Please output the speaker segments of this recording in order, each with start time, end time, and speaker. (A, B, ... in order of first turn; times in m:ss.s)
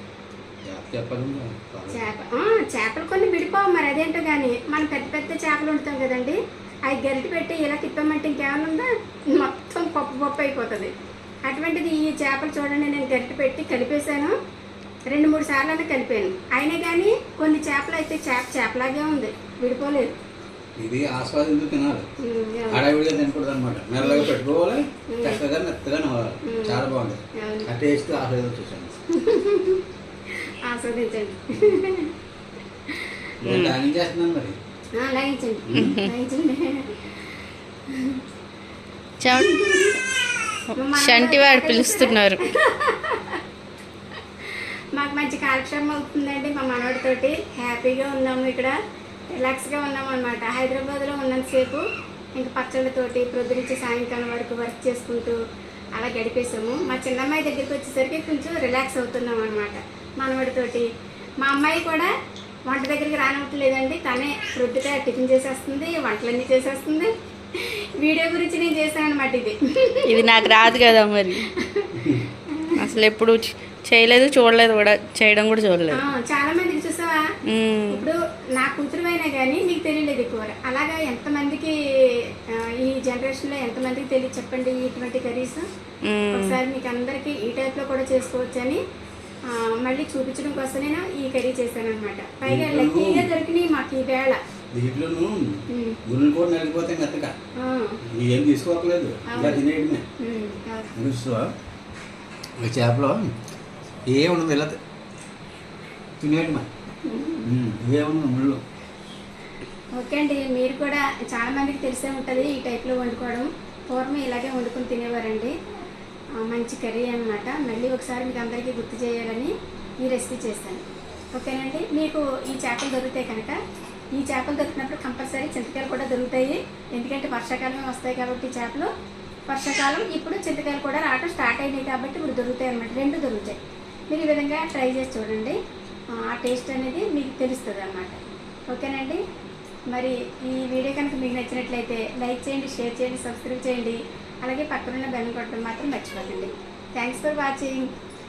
0:00.6-0:02.0 A
0:01.9-0:10.9 B
0:11.5-0:14.4 B
0:15.1-0:20.1 B
0:20.8-0:22.1 A
0:22.2-0:22.9 B
0:22.7-0:29.0 A
0:24.0-0:24.3 B
0:25.1-0:25.4 B
0:26.4-0:26.8 B
0:27.4-0:27.7 B
0:29.1-0:29.8 B
0:30.7-0:32.1 B
0:32.9-0:33.3 B
0:33.4-0:34.6 A
0:33.5-0:33.7 C
0:35.0-0:37.3 B
0:35.7-0:36.0 A
0:35.8-0:36.0 C
0:37.9-0:38.2 B
0:39.2-0:39.6 C
0:39.3-0:40.0 B
0:40.7-0:43.4 B
0:41.0-0:42.4 C
0:44.4-0:48.8 B
0:49.3-0:51.8 B
0:52.4-0:55.4 B
0:56.0-1:00.9 B
1:01.4-1:02.1 B
1:02.7-1:10.8 B
1:10.1-1:11.5 C
1:11.6-1:12.7 B
1:12.0-1:12.2 A
1:12.8-1:16.0 C
1:15.9-1:17.2 B
1:17.5-1:17.9 C
1:17.9-1:21.8 B
1:22.5-1:25.6 B
1:26.3-1:28.8 B
1:29.5-1:34.4 B
1:32.4-1:33.3 A
1:34.7-1:37.3 A
1:35.7-1:36.0 B
1:37.6-1:38.0 B
1:38.1-1:40.0 A
1:39.3-1:39.6 B
1:40.2-1:40.9 B
1:41.0-1:41.5 A
1:42.6-1:43.3 A
1:44.1-1:44.8 A
1:46.2-1:46.7 A
1:47.1-1:47.5 B
1:47.4-1:48.6 A
1:49.9-1:55.6 B
1:56.4-2:03.6 B
2:04.1-2:08.9 B
2:09.5-2:13.6 B
2:14.1-2:15.6 B
2:16.2-2:18.2 B
2:18.7-2:19.2 B
2:19.9-2:27.9 B